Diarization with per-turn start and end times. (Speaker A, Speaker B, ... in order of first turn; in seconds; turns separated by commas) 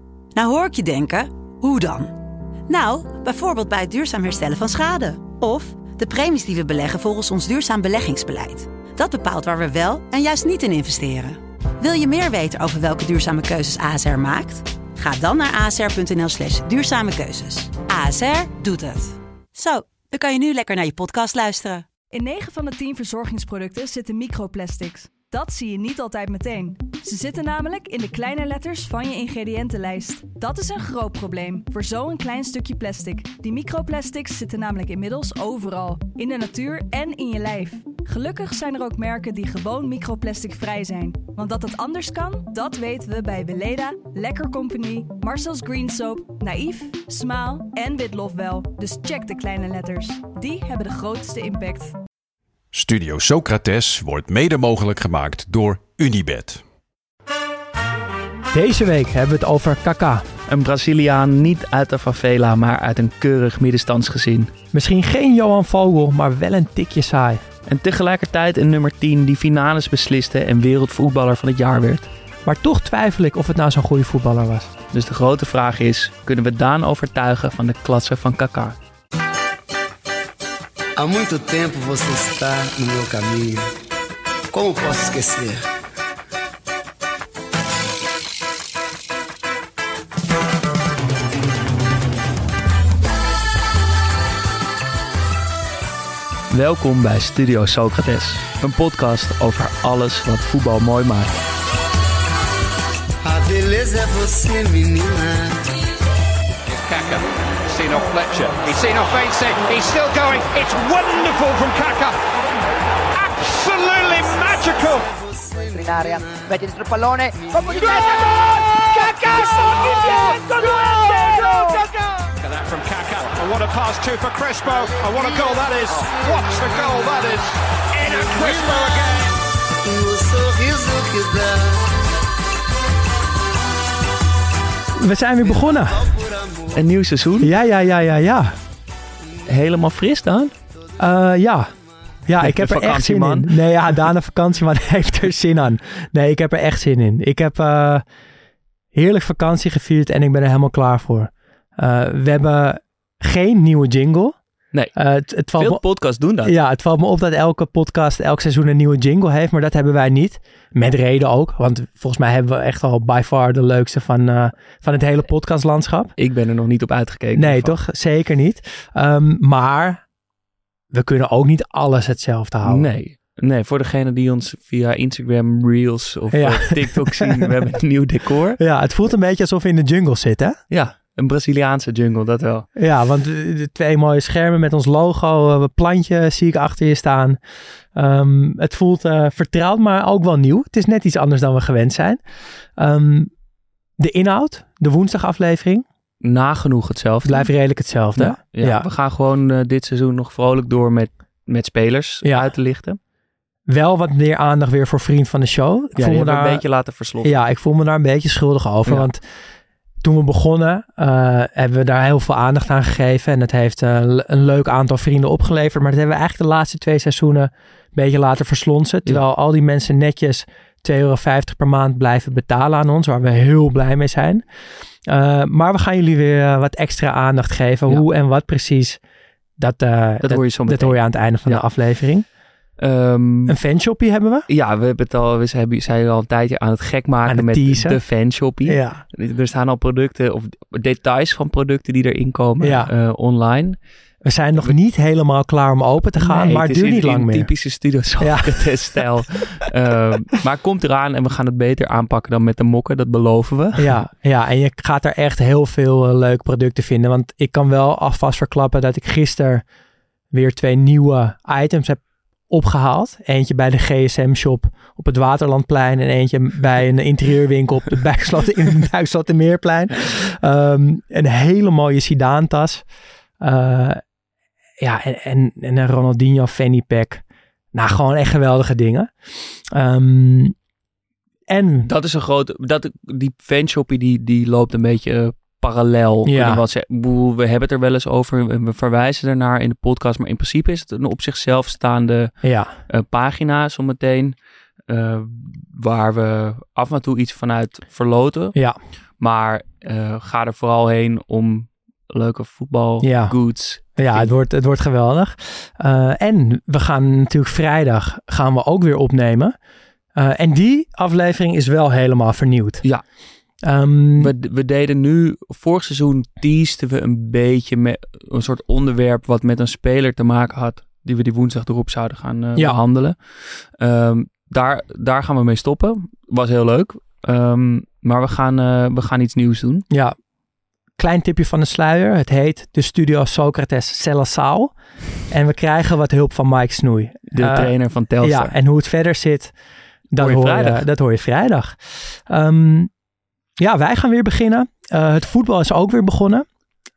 Speaker A: 0.3-2.1, Speaker A: 2.7-21.9, Speaker B: 22.1-52.0, Speaker C: 52.7-56.6, Speaker D: 58.5-60.3, Speaker E: 60.5-64.5, Speaker D: 64.7-67.4, Speaker E: 67.7-72.1, Speaker D: 72.5-74.7, Speaker E: 74.9-78.8, Speaker F: 81.0-83.7, Speaker F: 84.5-85.7, Speaker E: 96.5-101.4, Speaker F: 103.2-105.6, Speaker G: 106.7-112.2, Speaker G: 113.1-115.1, Speaker F: 114.3-116.7, Speaker H: 115.8-118.0, Speaker F: 117.3-121.8, Speaker G: 117.5-129.3, Speaker F: 124.7-127.3, Speaker F: 128.1-129.3, Speaker F: 129.8-131.9, Speaker D: 135.0-136.1, Speaker F: 135.4-136.8, Speaker E: 136.7-137.5, Speaker D: 137.4-138.6, Speaker E: 139.5-140.5, Speaker D: 141.0-141.7, Speaker D: 142.3-148.1, Speaker E: 142.4-143.8, Speaker D: 148.9-154.4, Speaker D: 154.9-155.8, Speaker E: 155.5-156.6, Speaker D: 156.4-166.1, Speaker E: 166.2-167.8, Speaker D: 167.3-170.0, Speaker D: 170.9-172.8, Speaker E: 172.7-178.6, Speaker D: 176.3-177.5, Speaker D: 178.6-180.6, Speaker E: 180.7-182.7, Speaker D: 182.8-187.4, Speaker D: 187.9-192.2, Speaker D: 192.8-193.3, Speaker D: 194.0-195.9, Speaker E: 196.2-197.5, Speaker D: 197.2-198.9, Speaker E: 198.2-203.0, Speaker D: 202.2-202.5, Speaker D: 203.7-206.6, Speaker E: 206.0-207.4, Speaker D: 207.2-209.2, Speaker D: 210.0-224.4, Speaker D: 225.1-229.0, Speaker D: 229.6-232.3, Speaker E: 230.2-231.6, Speaker E: 232.8-233.6, Speaker D: 233.5-234.5, Speaker E: 234.5-243.8, Speaker D: 237.3-238.0, Speaker D: 238.7-239.0, Speaker D: 242.6-242.9, Speaker D: 244.2-247.5, Speaker E: 246.2-253.9, Speaker D: 248.2-249.0, Speaker D: 253.8-259.6, Speaker D: 260.3-272.9, Speaker D: 273.4-274.0, Speaker D: 274.8-277.2, Speaker D: 277.7-280.6, Speaker D: 281.5-281.9, Speaker E: 281.9-292.3, Speaker D: 286.3-286.6, Speaker D: 292.4-292.8, Speaker E: 292.9-294.4, Speaker E: 294.9-298.6, Speaker E: 299.2-304.3, Speaker D: 303.0-309.6, Speaker D: 310.1-312.8, Speaker D: 313.6-314.3, Speaker E: 314.2-329.9, Speaker D: 329.9-330.2, Speaker D: 331.0-334.7, Speaker D: 335.3-339.5, Speaker E: 337.3-338.5, Speaker D: 340.1-342.9, Speaker E: 340.2-340.9, Speaker D: 343.6-346.5